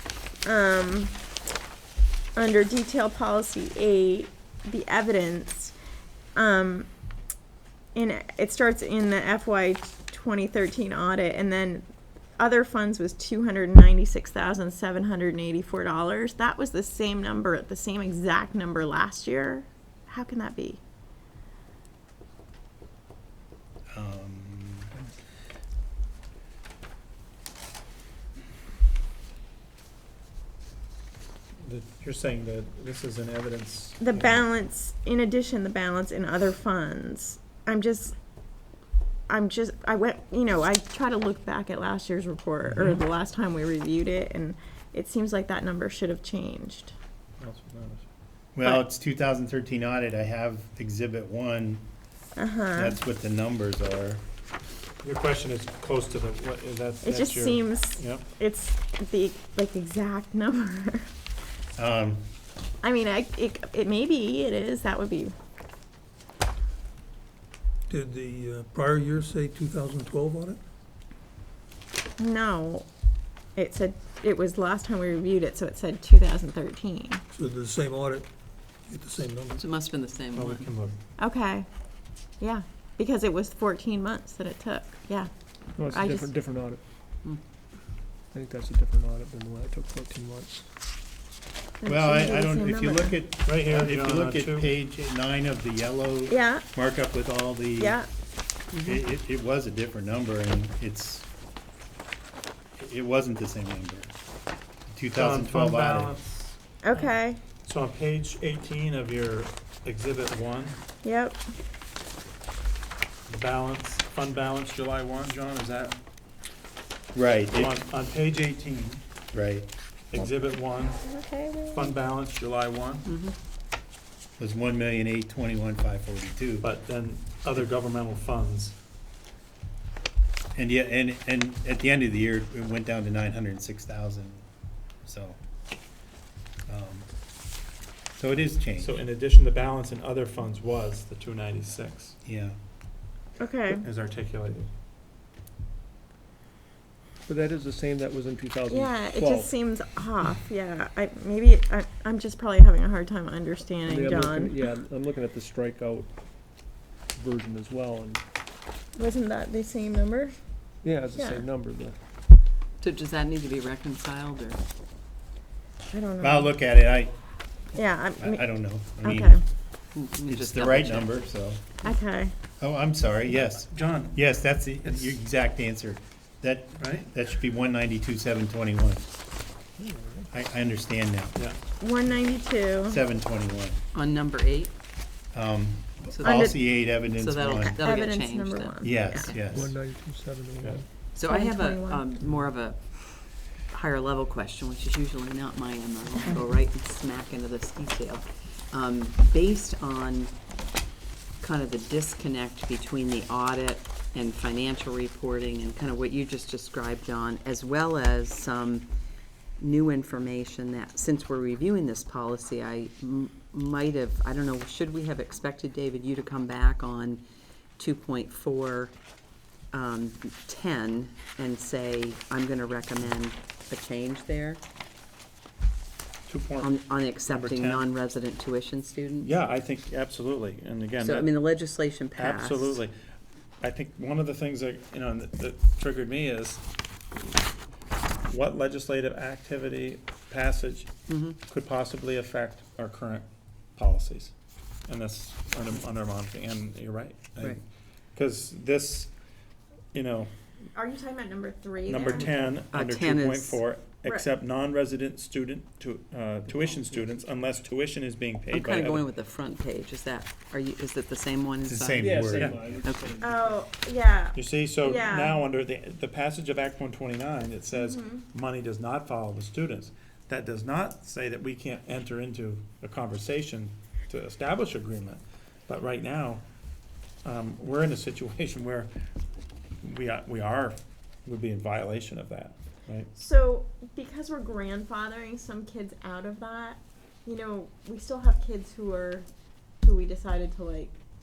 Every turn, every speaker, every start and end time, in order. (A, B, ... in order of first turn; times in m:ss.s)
0:00.4-0:01.2 A
0:02.4-0:05.7 A
0:06.4-0:06.9 A
0:08.0-0:11.8 A
0:12.4-0:20.8 A
0:23.9-0:24.9 B
0:31.6-0:34.4 C
0:34.0-0:38.2 A
0:39.3-0:46.9 A
0:47.4-0:48.1 C
0:48.6-0:51.8 B
0:52.4-0:53.0 A
0:52.8-0:54.2 B
0:55.0-0:58.3 C
0:57.0-1:01.1 A
1:01.8-1:02.2 B
1:02.8-1:05.3 A
1:07.9-1:10.6 D
1:12.2-1:12.9 A
1:13.6-1:17.2 A
1:17.3-1:18.3 D
1:18.9-1:19.6 D
1:19.6-1:20.7 E
1:20.3-1:21.0 C
1:21.2-1:21.7 A
1:22.4-1:26.3 A
1:25.8-1:26.8 F
1:28.3-1:30.7 F
1:31.8-1:33.2 A
1:31.9-1:38.0 B
1:33.4-1:34.7 C
1:36.3-1:36.6 A
1:37.8-1:38.1 A
1:38.7-1:39.0 E
1:38.8-1:41.3 B
1:42.8-1:44.1 B
1:44.9-1:46.2 B
1:45.1-1:50.8 C
1:46.8-1:47.4 A
1:51.0-1:51.4 A
1:53.3-1:56.0 C
1:57.1-1:57.7 B
1:57.6-1:59.0 C
1:59.3-2:00.2 B
2:00.1-2:01.1 C
2:00.8-2:01.9 A
2:01.7-2:03.1 C
2:03.0-2:03.3 E
2:04.4-2:06.7 B
2:06.6-2:08.8 C
2:10.6-2:14.4 B
2:15.0-2:15.4 B
2:16.7-2:17.1 B
2:18.2-2:19.0 B
2:18.8-2:22.2 C
2:22.2-2:22.6 B
2:23.4-2:23.9 A
2:23.7-2:24.7 C
2:27.3-2:29.5 F
2:28.7-2:34.5 A
2:33.9-2:36.1 F
2:37.1-2:38.2 F
2:39.0-2:40.4 A
2:40.8-2:42.0 F
2:41.2-2:41.4 A
2:42.8-2:44.6 E
2:45.9-2:46.5 A
2:46.2-2:47.1 B
2:47.8-2:48.5 A
2:48.2-2:49.4 B
2:49.0-2:49.4 A
2:50.0-2:51.3 E
2:50.3-2:51.6 B
2:51.8-2:52.3 A
2:52.6-2:59.1 B
2:53.4-2:54.2 C
2:54.8-2:55.2 C
2:56.8-2:57.1 C
2:59.8-3:00.3 F
3:00.3-3:01.4 B
3:01.8-3:03.0 A
3:02.9-3:03.8 B
3:03.9-3:04.7 E
3:05.3-3:07.8 B
3:06.1-3:09.4 E
3:06.2-3:06.6 A
3:07.6-3:09.3 A
3:08.8-3:09.7 B
3:09.5-3:10.9 F
3:11.1-3:20.3 E
3:11.3-3:12.0 A
3:21.4-3:28.9 E
3:29.6-3:37.2 E
3:37.8-3:38.9 E
3:39.7-3:44.6 E
3:46.3-3:46.7 C
3:46.6-3:49.3 E
3:47.3-3:47.9 C
3:49.2-3:51.3 C
3:51.0-3:52.8 E
3:52.2-3:52.9 C
3:53.6-3:56.6 C
3:58.3-4:00.9 C
4:01.1-4:01.4 E
4:01.5-4:04.3 C
4:04.9-4:07.3 C
4:08.2-4:09.1 C
4:09.9-4:10.3 C
4:10.8-4:12.3 A
4:11.9-4:19.0 C
4:11.9-4:13.6 E
4:18.5-4:23.2 E
4:21.6-4:22.6 B
4:22.0-4:23.6 F
4:23.2-4:25.4 A
4:24.3-4:36.4 C
4:27.7-4:28.2 A
4:37.2-4:38.9 C
4:39.8-4:43.1 C
4:43.1-4:49.3 A
4:49.8-4:51.0 A